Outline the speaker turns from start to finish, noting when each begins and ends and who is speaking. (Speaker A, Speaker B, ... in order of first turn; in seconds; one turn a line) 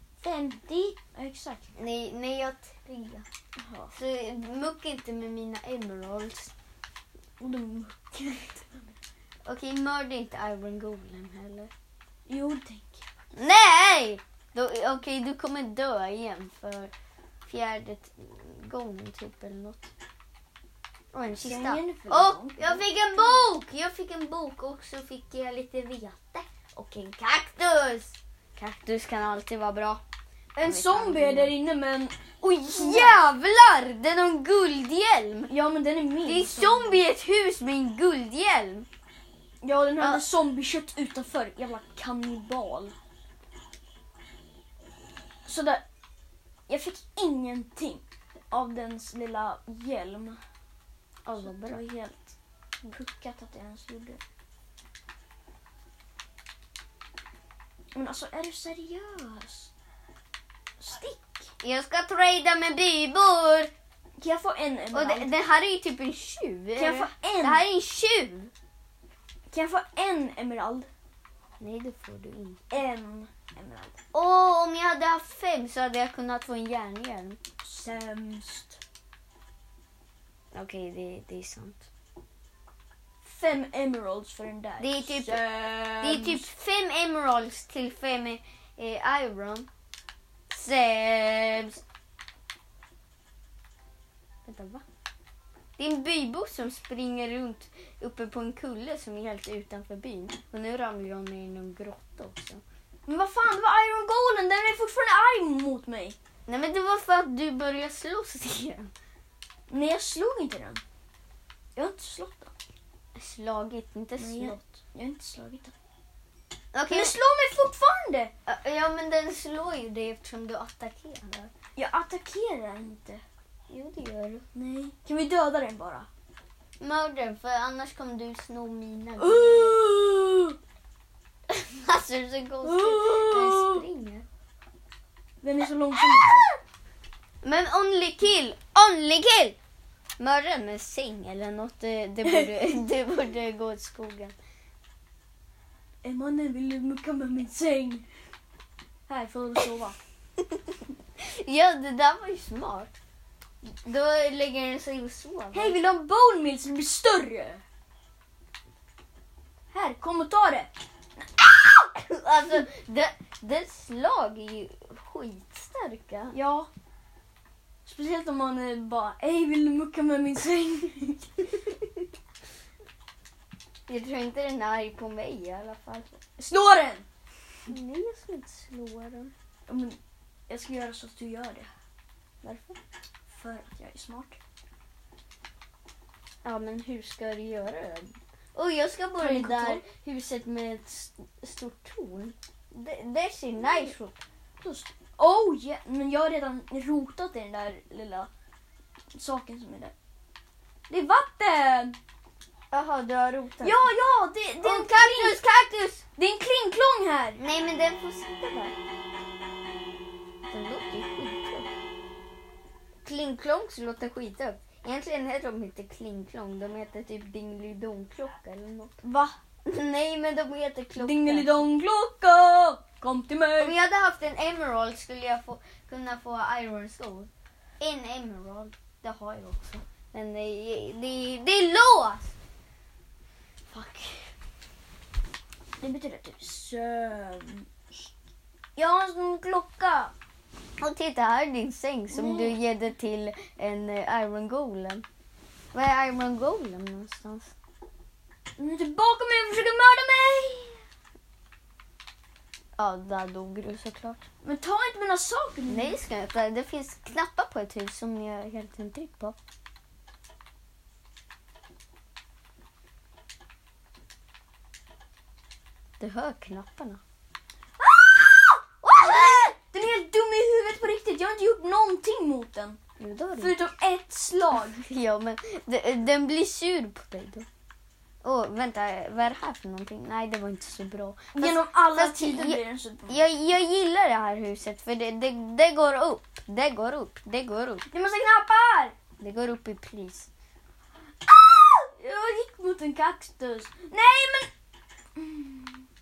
Speaker A: 0.2-1.7
Speaker B: 1.8-3.2
Speaker A: 3.6-3.9
Speaker B: 3.9-6.5
Speaker A: 7.4-8.9
Speaker B: 9.4-11.7
Speaker A: 12.3-13.0
Speaker B: 13.3-16.9
Speaker B: 17.4-19.9
Speaker B: 21.1-30.0
Speaker A: 21.4-23.4
Speaker A: 30.5-33.2
Speaker B: 30.6-31.5
Speaker B: 32.4-35.5
Speaker A: 35.5-37.0
Speaker B: 36.2-38.9
Speaker A: 39.6-42.9
Speaker B: 40.0-40.2
Speaker A: 45.5-45.8
Speaker A: 46.7-50.4
Speaker B: 51.2-51.8
Speaker A: 51.4-52.3
Speaker A: 52.9-54.2
Speaker A: 57.9-59.7
Speaker A: 60.8-61.5
Speaker B: 61.6-63.7
Speaker A: 64.2-65.3
Speaker B: 64.9-68.5
Speaker A: 66.8-67.6
Speaker A: 69.5-70.9
Speaker B: 71.6-72.6
Speaker A: 72.7-74.0
Speaker B: 74.1-77.4
Speaker A: 77.6-78.8
Speaker B: 80.5-81.9
Speaker A: 83.2-86.5
Speaker B: 84.8-85.4
Speaker B: 86.0-89.7
Speaker B: 90.5-91.8
Speaker B: 94.4-94.8
Speaker B: 95.8-102.6
Speaker A: 103.1-106.2
Speaker B: 106.5-108.9
Speaker A: 109.7-110.8
Speaker A: 111.8-112.5
Speaker B: 113.1-114.6
Speaker A: 114.2-115.7
Speaker B: 116.7-117.1
Speaker A: 116.9-118.3
Speaker B: 118.5-121.5
Speaker A: 121.8-123.2
Speaker B: 123.7-124.4
Speaker A: 124.5-126.1
Speaker B: 126.8-129.8
Speaker A: 129.2-130.6
Speaker B: 131.5-134.2
Speaker A: 132.6-133.8
Speaker A: 135.4-136.5
Speaker B: 137.4-139.6
Speaker B: 140.2-144.3
Speaker A: 142.2-142.8
Speaker A: 146.0-148.1
Speaker A: 149.1-150.0
Speaker B: 151.2-153.0
Speaker B: 153.8-155.8
Speaker A: 155.5-157.6
Speaker A: 159.7-160.7
Speaker B: 161.9-166.3
Speaker A: 166.3-166.7
Speaker A: 167.8-171.3
Speaker B: 173.9-176.2
Speaker A: 176.4-177.1
Speaker B: 177.7-179.3
Speaker A: 179.7-181.7
Speaker B: 182.4-182.8
Speaker A: 183.3-184.4
Speaker B: 186.4-194.2
Speaker A: 189.2-189.8
Speaker A: 194.6-198.3
Speaker A: 199.1-199.9
Speaker A: 200.9-201.9
Speaker B: 202.7-203.8
Speaker A: 203.6-205.4
Speaker B: 204.6-206.0
Speaker A: 206.2-207.4
Speaker B: 207.4-208.7
Speaker B: 210.5-211.7
Speaker B: 213.0-219.0
Speaker A: 219.0-219.4
Speaker B: 219.6-221.6
Speaker A: 221.0-223.8
Speaker B: 223.6-232.3
Speaker B: 233.7-234.0
Speaker A: 233.7-234.2
Speaker A: 235.8-238.1
Speaker A: 238.8-240.1
Speaker B: 240.8-245.0
Speaker A: 242.1-242.6
Speaker B: 245.7-247.5
Speaker A: 248.6-250.8
Speaker B: 252.8-254.2
Speaker A: 254.4-256.0
Speaker B: 255.7-259.4
Speaker B: 266.0-267.0
Speaker A: 267.8-272.8
Speaker B: 268.8-269.5
Speaker B: 273.0-273.6
Speaker A: 273.4-274.9
Speaker B: 274.8-277.5
Speaker B: 278.2-287.9
Speaker A: 281.3-283.2
Speaker A: 287.9-288.9
Speaker B: 289.2-290.3
Speaker A: 291.3-294.5
Speaker A: 295.1-295.8